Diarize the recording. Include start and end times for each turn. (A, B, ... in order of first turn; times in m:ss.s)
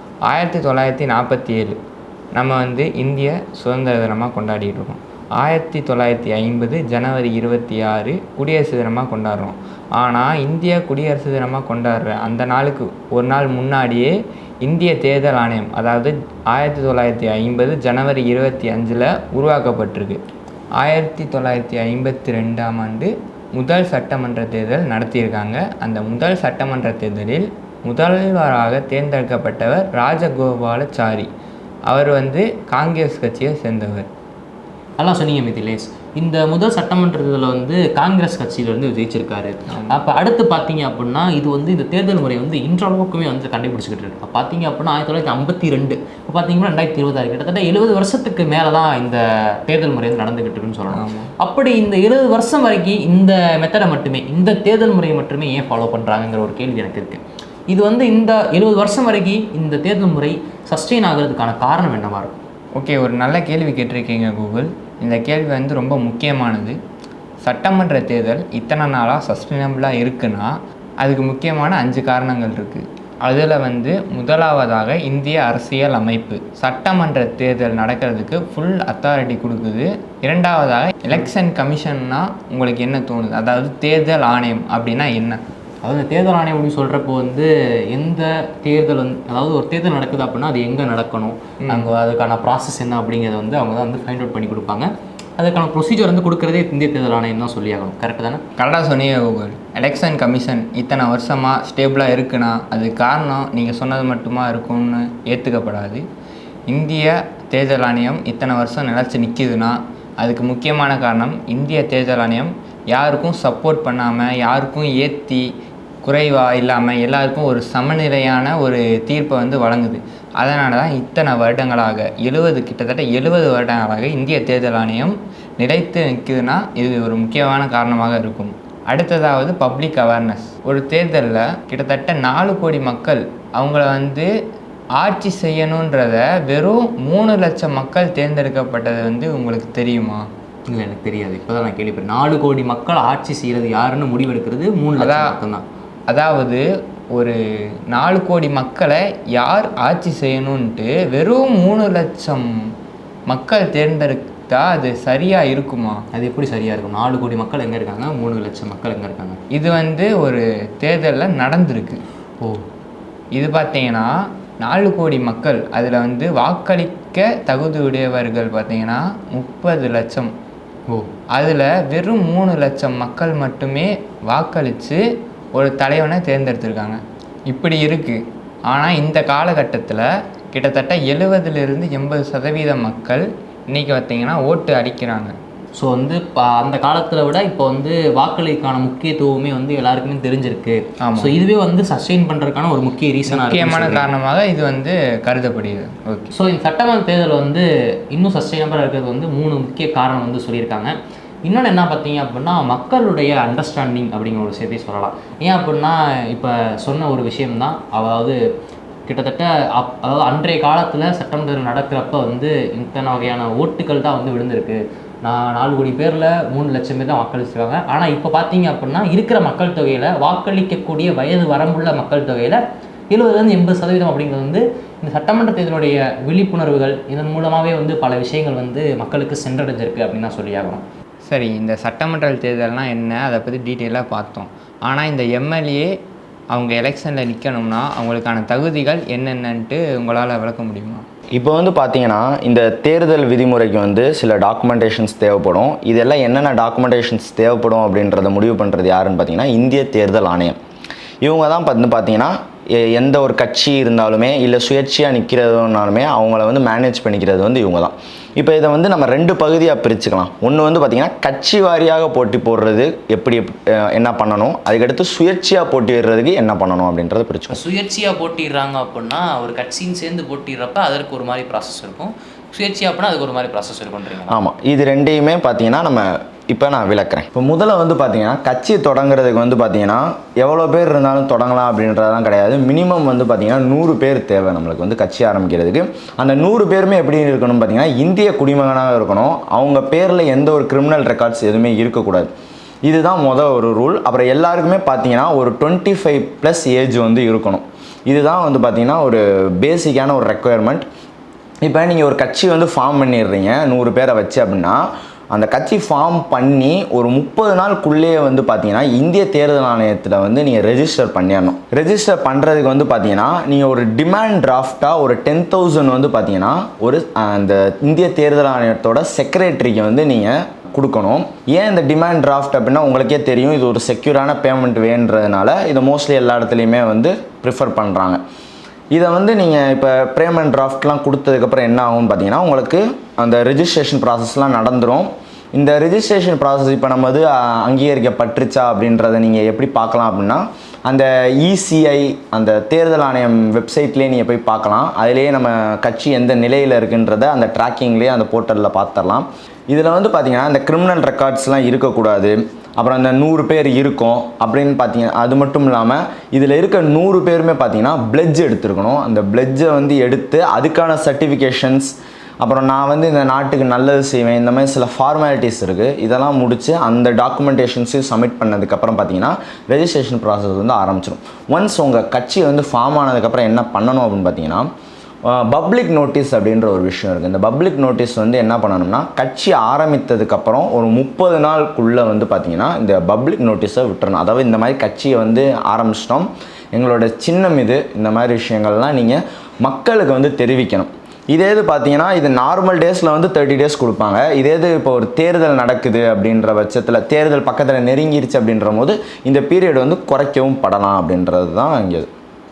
0:00.3-0:01.8 A
0:02.4-0:14.1 A
0:14.6-0:20.2 A
0:20.8-0:31.3 A
0:31.9-0:34.1 A
0:35.0-1:02.4 B
0:50.9-0:51.3 A
1:02.8-1:06.8 A
1:07.4-1:25.4 A
1:25.8-1:38.4 B
1:31.6-1:31.9 A
1:38.6-1:46.0 A
1:46.7-1:55.4 A
1:56.0-2:14.3 A
2:15.0-2:20.2 A
2:20.7-2:25.6 B
2:25.0-2:25.4 A
2:26.1-2:26.6 A
2:27.9-2:32.5 A
2:33.3-2:36.0 A
2:36.1-2:39.4 B
2:39.5-2:42.0 A
2:43.3-2:50.3 A
2:51.4-2:55.0 A
2:55.5-3:05.3 A
3:05.8-3:14.1 B
3:11.0-3:11.3 A
3:13.3-3:16.3 A
3:16.3-3:20.9 B
3:21.4-3:28.4 B
3:29.1-3:50.8 B
3:51.3-3:55.9 A
3:56.5-4:01.0 A
4:01.3-4:10.6 C
4:11.2-4:27.6 C
4:27.5-4:34.4 B
4:34.3-4:52.3 C
4:52.9-5:00.9 C
5:01.6-5:04.8 C
5:05.3-5:28.2 C
5:28.9-6:14.7 C
6:15.3-6:42.1 C